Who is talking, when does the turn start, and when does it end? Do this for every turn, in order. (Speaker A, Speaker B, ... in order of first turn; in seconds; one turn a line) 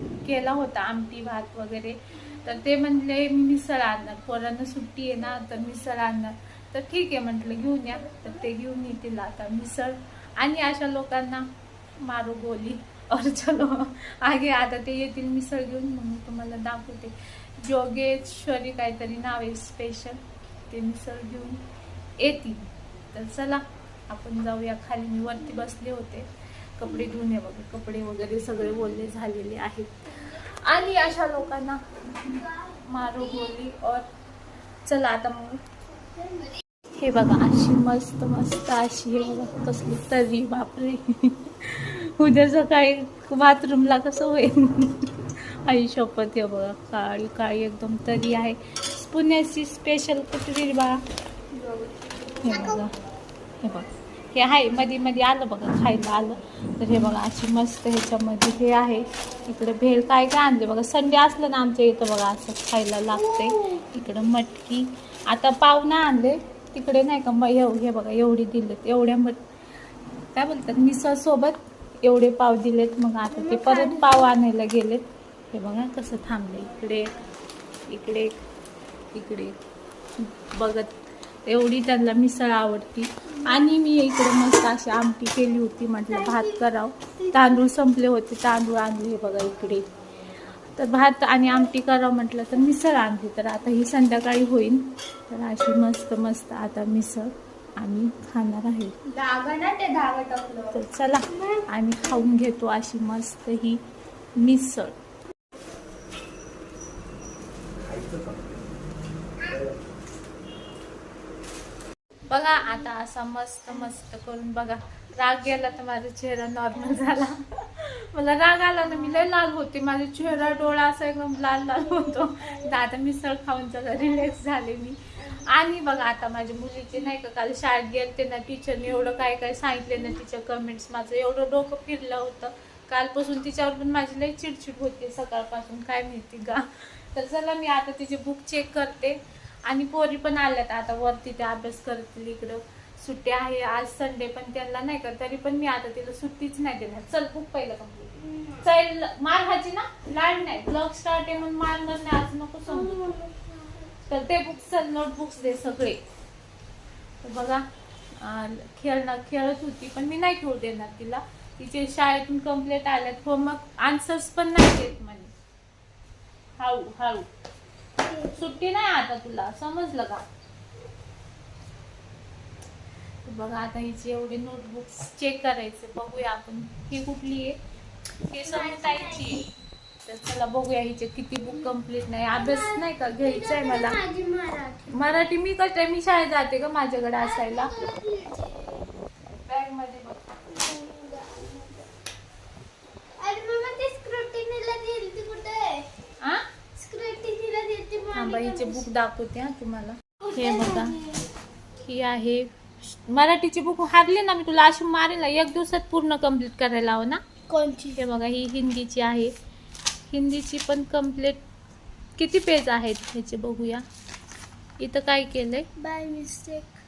Speaker A: 0.2-11.4
Speaker B: 7.9-8.5
Speaker A: 12.0-21.6
Speaker A: 22.2-26.3
Speaker A: 26.8-31.8
Speaker A: 32.8-34.0
Speaker A: 34.9-35.6
Speaker B: 35.9-36.5
Speaker A: 37.0-51.0
Speaker A: 52.4-52.9
Speaker B: 52.4-52.8
Speaker A: 53.6-69.4
Speaker B: 63.1-63.8
Speaker A: 70.3-77.1
Speaker B: 73.3-74.3
Speaker A: 77.9-78.3
Speaker A: 79.1-79.6
Speaker A: 80.2-89.8
Speaker B: 86.1-87.6
Speaker A: 90.7-99.1
Speaker B: 99.1-100.7
Speaker A: 100.7-103.8
Speaker B: 101.3-101.7
Speaker A: 104.4-105.0
Speaker A: 112.3-148.1
Speaker B: 118.8-119.3
Speaker B: 121.8-122.8
Speaker B: 125.2-125.5
Speaker B: 148.2-148.7
Speaker A: 148.6-153.0
Speaker B: 152.7-153.9
Speaker A: 154.1-156.0
Speaker A: 157.2-157.6
Speaker A: 158.2-165.3
Speaker A: 166.6-167.3
Speaker B: 168.0-168.4
Speaker A: 168.3-170.2
Speaker A: 173.2-177.6
Speaker A: 178.3-179.5
Speaker B: 178.3-179.5
Speaker A: 180.0-184.0
Speaker B: 182.3-185.0
Speaker A: 184.9-187.7
Speaker B: 187.2-188.9
Speaker A: 189.4-190.2
Speaker B: 190.5-191.9
Speaker B: 193.2-195.9
Speaker B: 196.7-198.8
Speaker A: 198.1-201.0
Speaker B: 200.2-201.3
Speaker A: 201.8-207.2
Speaker B: 207.5-208.0
Speaker A: 208.0-209.3
Speaker A: 210.1-211.4
Speaker A: 212.2-213.8
Speaker A: 214.8-215.7
Speaker B: 215.8-216.8